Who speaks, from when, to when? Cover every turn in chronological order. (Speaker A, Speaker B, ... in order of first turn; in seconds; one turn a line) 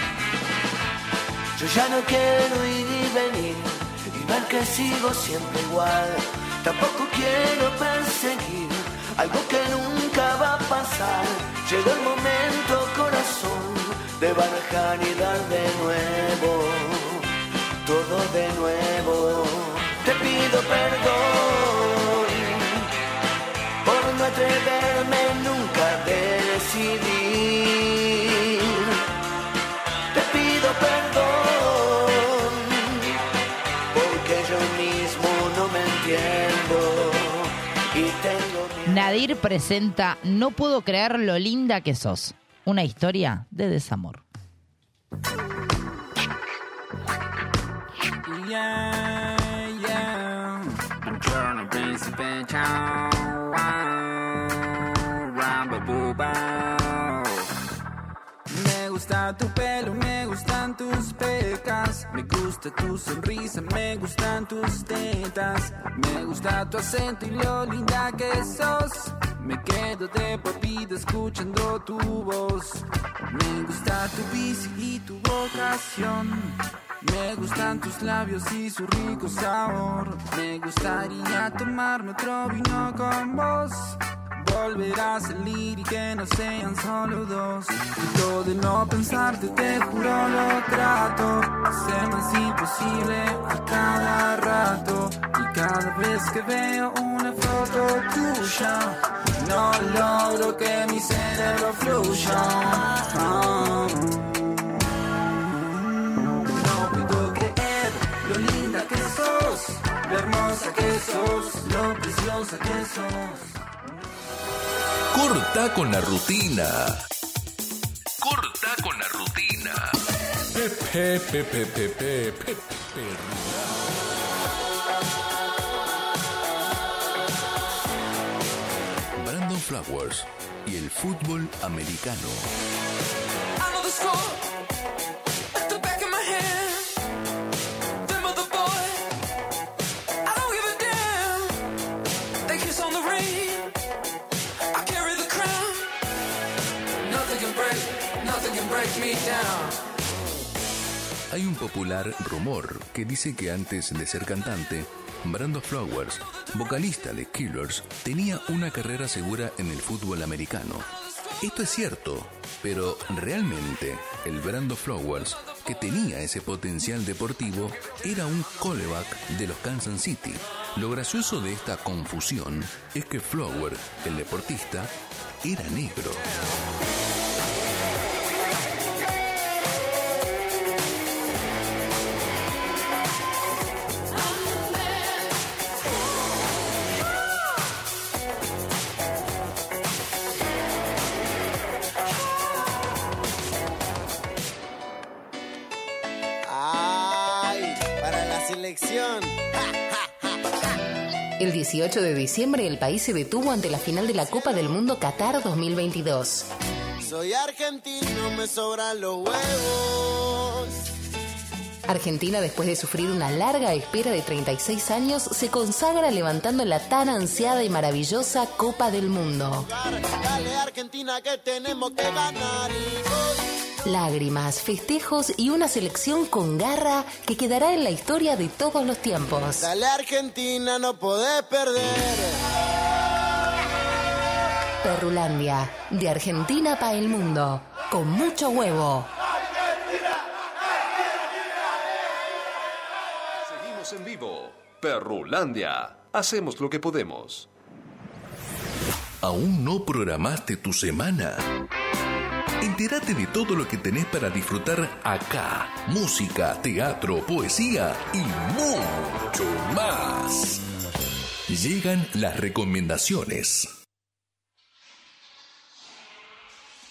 Speaker A: 1.6-17.2
Speaker A: 17.9-22.9
Speaker A: 23.9-28.7
Speaker A: 30.1-33.1
Speaker A: 33.9-39.2
Speaker B: 38.9-44.2
Speaker C: 48.2-57.5
Speaker C: 58.5-104.6
Speaker C: 106.0-113.5
Speaker D: 115.1-117.0
Speaker D: 118.2-123.9
Speaker D: 129.2-132.5
Speaker E: 133.6-134.3
Speaker E: 135.6-136.9
Speaker E: 138.1-139.0
Speaker E: 140.2-141.5
Speaker E: 142.5-143.7
Speaker E: 144.7-145.9
Speaker E: 147.1-149.8
Speaker D: 151.3-160.9
Speaker D: 161.4-176.3
Speaker F: 196.5-199.4
Speaker G: 201.4-206.5
Speaker F: 207.1-210.8
Speaker G: 211.9-219.7
Speaker F: 219.5-223.4
Speaker G: 223.8-229.7
Speaker F: 229.6-232.4
Speaker G: 234.8-239.1
Speaker H: 243.4-247.5
Speaker D: 249.2-251.5
Speaker D: 252.6-260.6
Speaker D: 261.5-263.7